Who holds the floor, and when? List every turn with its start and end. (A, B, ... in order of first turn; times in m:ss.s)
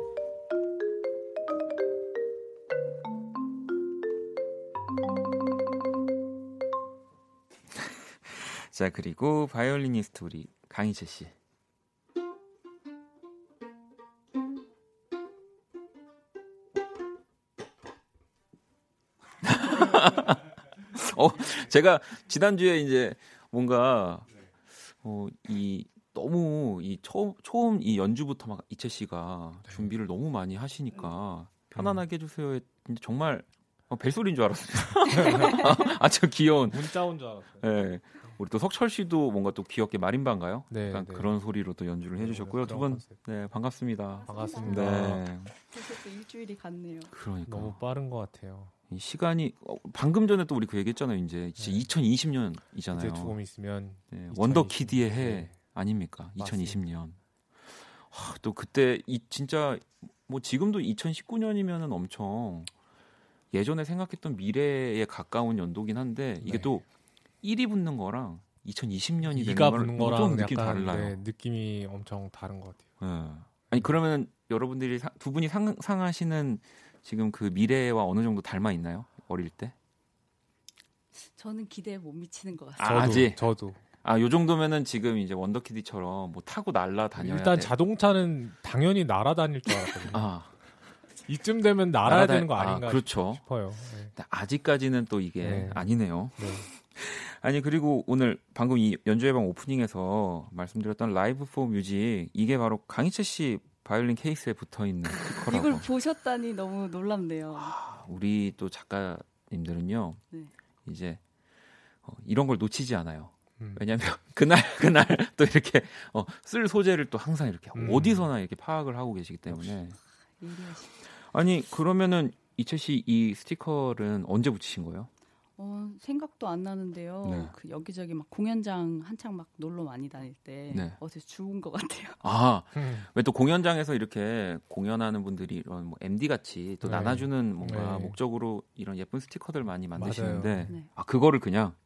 0:08.2-0:11.3 A
0:19.4-0:24.3 A
0:24.9-0:36.9 A
0:31.7-0:32.0 B
0:35.2-0:35.6 B
0:36.7-0:37.7 B
0:37.6-0:45.5 A
0:40.7-0:41.3 B
0:42.2-0:43.3 B
0:44.2-0:44.8 C
0:44.3-0:45.3 B
0:45.7-0:47.1 C
0:47.1-0:47.8 A
0:47.5-0:48.7 B
0:48.9-0:53.4 A
0:51.6-0:51.9 B
0:52.9-0:55.6 B
0:54.1-1:02.7 A
0:56.4-0:56.8 B
1:03.5-1:06.8 A
1:06.4-1:06.8 B
1:07.4-1:11.2 A
1:09.3-1:12.9 B
1:13.0-1:19.8 A
1:21.3-1:23.1 C
1:22.8-1:23.4 A
1:22.8-1:23.8 B
1:24.0-1:27.7 A
1:27.2-1:30.3 B
1:30.1-1:30.5 A
1:31.3-1:34.1 B
1:32.0-1:33.4 A
1:34.1-1:45.9 A
1:35.4-1:36.7 B
1:45.3-1:47.8 C
1:47.5-1:50.2 A
1:50.8-1:51.2 A
1:52.0-2:00.0 A
1:53.6-1:53.8 B
1:57.8-1:58.3 B
1:59.5-1:59.7 B
2:00.4-2:00.9 C
2:01.2-2:05.1 A
2:05.6-2:12.2 C
2:07.2-2:07.5 A
2:10.7-2:11.0 A
2:12.2-2:21.8 A
2:12.7-2:13.1 B
2:16.8-2:18.2 B
2:20.0-2:20.7 B